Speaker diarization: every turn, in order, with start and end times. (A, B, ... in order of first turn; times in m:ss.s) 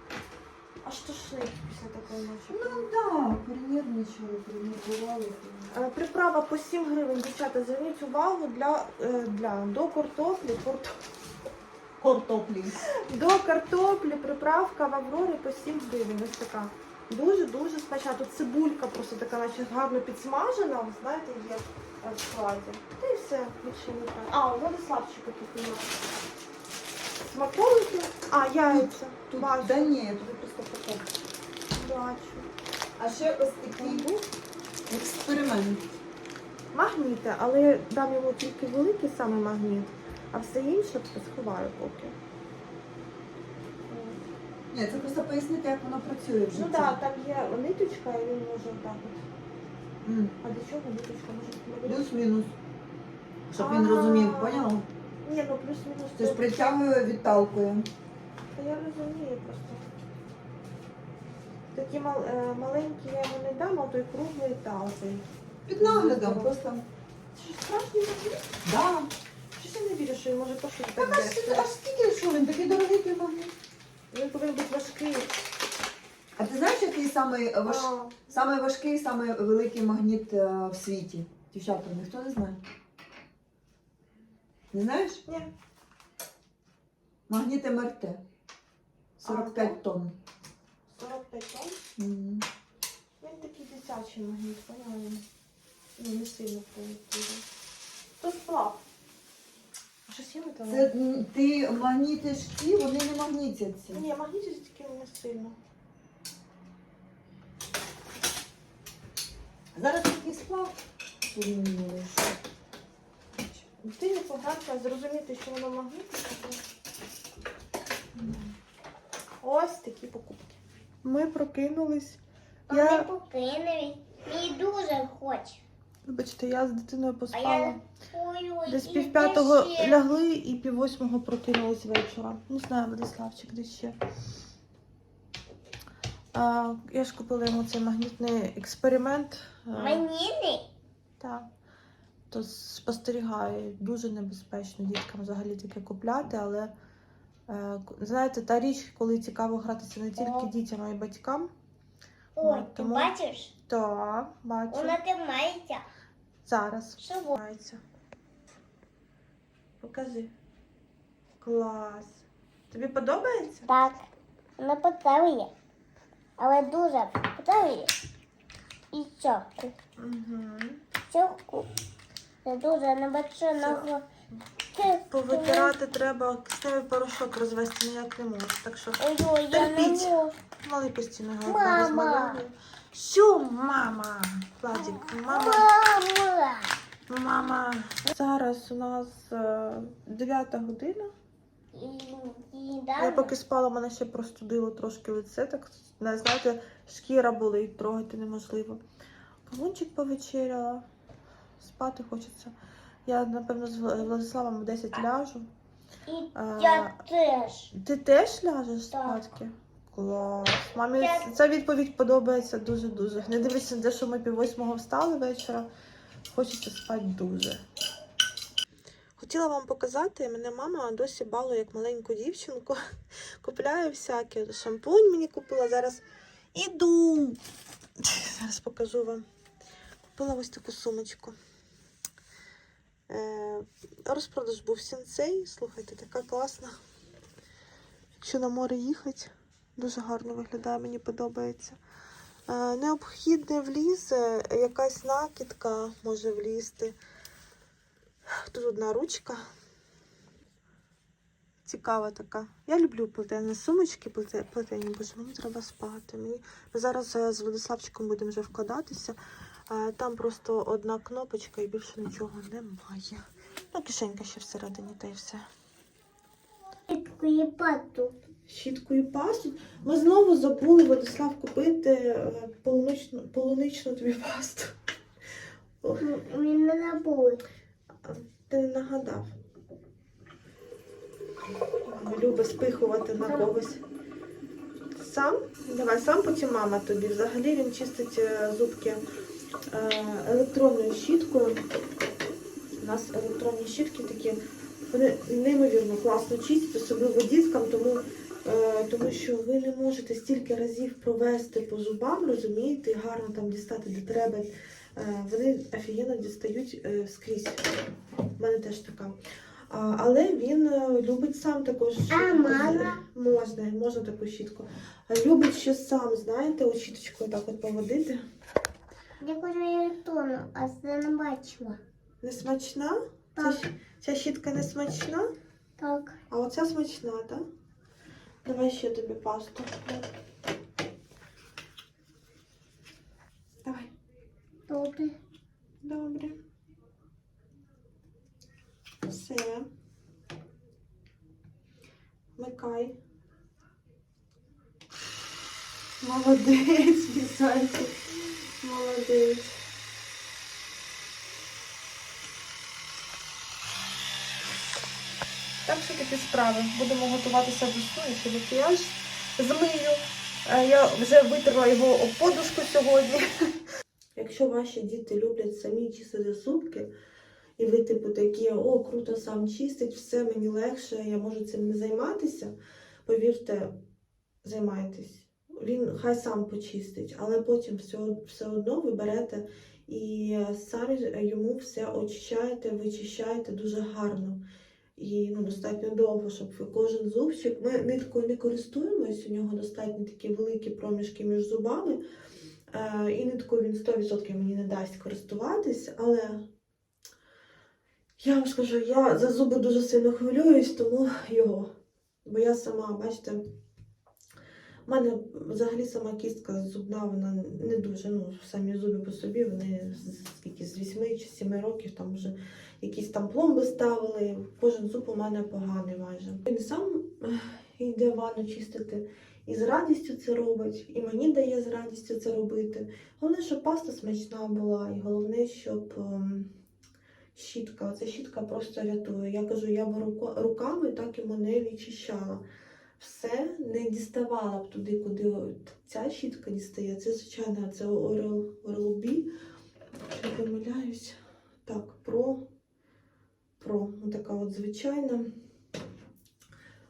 0:00.8-0:02.9 A
0:02.5-0:05.7 B
0:05.7-0:11.0 A
0:12.0-0:12.8 B
0:13.1-0:25.9 A
0:27.2-0:29.8 A
0:28.7-0:31.1 B
0:31.7-0:32.5 A
0:33.0-0:34.1 B
0:33.7-0:34.3 A
0:34.9-0:35.8 B
0:36.7-0:42.1 A
0:43.9-0:44.2 A
0:44.7-0:47.0 B
0:46.5-0:49.2 A
0:50.0-0:50.4 B
0:50.4-0:52.0 A
0:51.8-0:52.5 B
0:53.5-0:54.8 B
0:53.6-0:54.7 A
0:55.2-0:56.4 A
0:56.2-0:57.9 B
0:58.5-0:59.8 A
1:01.7-1:05.2 A
1:05.7-1:06.8 B
1:05.8-1:06.6 A
1:07.3-1:08.6 A
1:08.6-1:09.1 B
1:09.6-1:11.7 A
1:11.0-1:13.5 B
1:14.1-1:15.3 A
1:16.4-1:22.6 B
1:17.6-1:18.3 A
1:24.7-1:25.2 B
1:27.3-1:28.2 B
1:29.2-1:30.2 B
1:29.2-1:29.8 A
1:30.9-1:31.8 A
1:32.0-1:32.4 B
1:33.2-1:35.2 A
1:36.0-1:37.4 A
1:38.2-1:38.8 A
1:40.1-1:40.9 A
1:40.7-1:44.0 B
1:43.9-1:45.6 A
1:49.7-1:52.4 B
1:53.8-1:56.6 A
1:58.2-1:58.5 A
1:59.4-2:03.1 A
2:02.7-2:05.6 C
2:06.0-2:07.8 A
2:07.3-2:10.0 C
2:08.6-2:14.0 A
2:16.3-2:20.0 A
2:19.7-2:20.7 C
2:21.2-2:21.5 A
2:22.3-2:26.7 A
2:27.5-2:31.5 A
2:30.2-2:30.5 C
2:32.4-2:33.5 C
2:32.4-2:33.1 A
2:33.7-2:35.0 A
2:34.7-2:35.8 C
2:36.4-2:37.8 A
2:37.0-2:37.4 C
2:39.8-2:40.3 A
2:41.4-2:43.7 A
2:43.7-2:44.0 C
2:44.6-2:45.5 C
2:46.4-2:47.9 C
2:48.9-2:49.7 C
2:50.0-2:50.8 A
2:51.1-2:51.7 C
2:52.4-2:54.0 C
2:53.6-2:53.9 A
2:54.7-2:55.7 C
2:55.1-3:05.6 A
2:59.0-3:00.3 C
3:01.4-3:02.4 C
3:05.3-3:06.8 C
3:07.1-3:11.1 A
3:11.7-3:13.3 C
3:13.0-3:18.8 A
3:19.4-3:20.8 A
3:21.6-3:22.5 A
3:23.0-3:25.5 A
3:26.1-3:27.7 C
3:26.3-3:27.0 A
3:27.7-3:35.7 A
3:28.9-3:29.2 C
3:31.0-3:31.3 C
3:36.3-3:37.6 A
3:39.2-3:42.8 A
3:43.4-3:46.0 A
3:46.5-3:47.4 A
3:48.0-3:49.2 A
3:50.1-3:51.4 A
3:53.1-3:56.8 A
3:58.2-4:01.8 A
4:02.5-4:07.0 A
4:08.3-4:09.4 A
4:11.6-4:19.2 A
4:19.7-4:25.4 A
4:26.9-4:28.1 C
4:28.4-4:34.7 A
4:36.0-4:37.4 C
4:38.0-4:39.3 A
4:41.9-4:43.8 A
4:43.2-4:43.5 C
4:45.0-4:49.0 A
4:49.7-4:51.6 A
4:52.8-5:07.6 A
5:08.4-5:09.2 A
5:09.7-5:18.2 A
5:12.1-5:13.0 C
5:19.2-5:21.8 C
5:22.2-5:25.3 A
5:23.4-5:23.6 C
5:25.8-5:26.2 C
5:26.3-5:27.4 A
5:28.4-5:30.1 A
5:33.6-5:33.9 A
5:34.7-5:35.1 C
5:35.8-5:36.4 A
5:39.0-5:39.7 A
5:42.4-5:43.0 A
5:46.0-5:49.6 A
5:55.6-6:03.5 A
6:04.2-6:06.9 A
6:07.6-6:12.5 A
6:13.0-6:13.8 A
6:14.4-6:24.4 A
6:25.0-6:32.0 A
6:32.7-6:36.4 A
6:38.2-6:41.7 A
6:42.2-6:43.4 A
6:44.8-7:06.5 A
7:07.3-7:12.4 A
7:13.0-7:19.3 A
7:20.1-7:22.4 A
7:23.6-7:25.3 A